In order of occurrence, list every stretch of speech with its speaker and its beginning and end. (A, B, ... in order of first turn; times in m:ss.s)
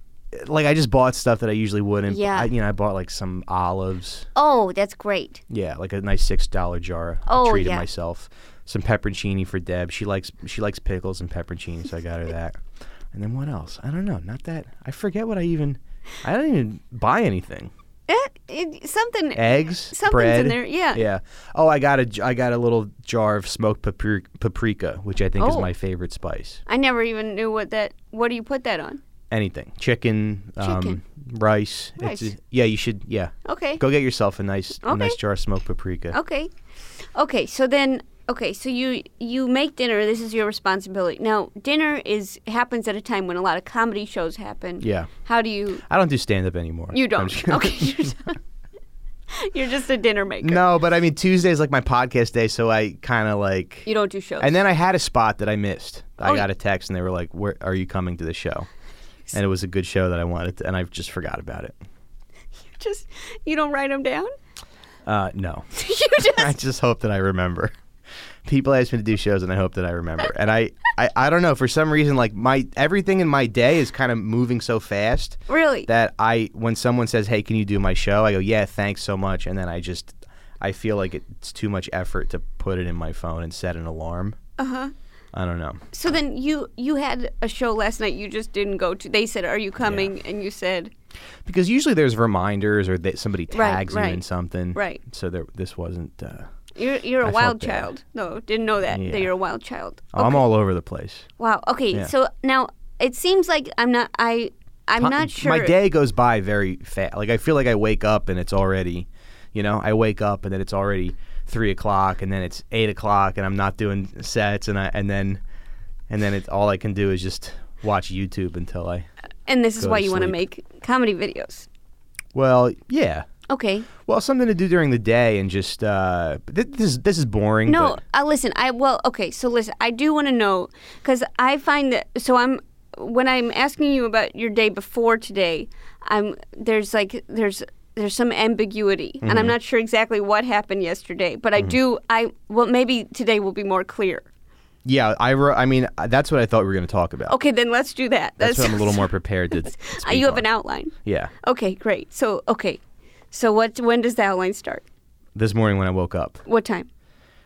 0:00.3-0:04.3 A
0:02.1-0:02.5 B
0:04.4-0:05.4 B
0:05.5-0:12.6 A
0:07.3-0:07.9 B
0:13.1-0:17.7 A
0:18.1-0:21.0 B
0:19.4-0:26.6 A
0:25.4-0:25.7 B
0:26.7-0:29.0 B
0:29.3-0:36.2 A
0:30.6-0:31.0 B
0:32.0-0:32.3 B
0:33.4-0:33.8 B
0:34.8-0:35.2 B
0:36.1-0:45.8 B
0:44.8-0:45.1 A
0:45.8-0:48.1 A
0:46.9-0:48.4 B
0:49.3-0:50.6 B
0:50.4-0:53.9 A
0:53.9-0:54.6 B
0:54.4-0:58.7 A
0:59.3-1:01.8 A
1:02.6-1:04.3 B
1:05.0-1:05.7 A
1:05.7-1:06.5 B
1:06.2-1:07.7 A
1:08.4-1:24.4 A
1:15.5-1:15.9 B
1:24.6-1:24.9 B
1:25.3-1:25.9 A
1:25.9-1:30.9 B
1:29.8-1:30.1 A
1:31.4-1:36.5 A
1:33.5-1:34.2 B
1:34.7-1:35.0 B
1:36.8-1:40.4 B
1:37.2-1:37.9 A
1:38.9-1:39.3 A
1:40.1-1:41.3 A
1:41.4-1:45.8 B
1:45.0-1:55.4 A
1:56.1-1:59.1 A
1:59.5-2:01.7 B
1:59.8-2:00.4 A
2:02.3-2:03.2 A
2:03.5-2:03.9 B
2:04.0-2:08.0 A
2:07.7-2:24.3 B
2:19.2-2:19.6 A
2:24.8-2:27.4 A
2:27.3-2:32.8 B
2:28.4-2:30.4 A
2:31.0-2:31.3 A
2:33.3-2:34.8 B
2:35.4-2:36.4 A
2:36.4-2:36.9 B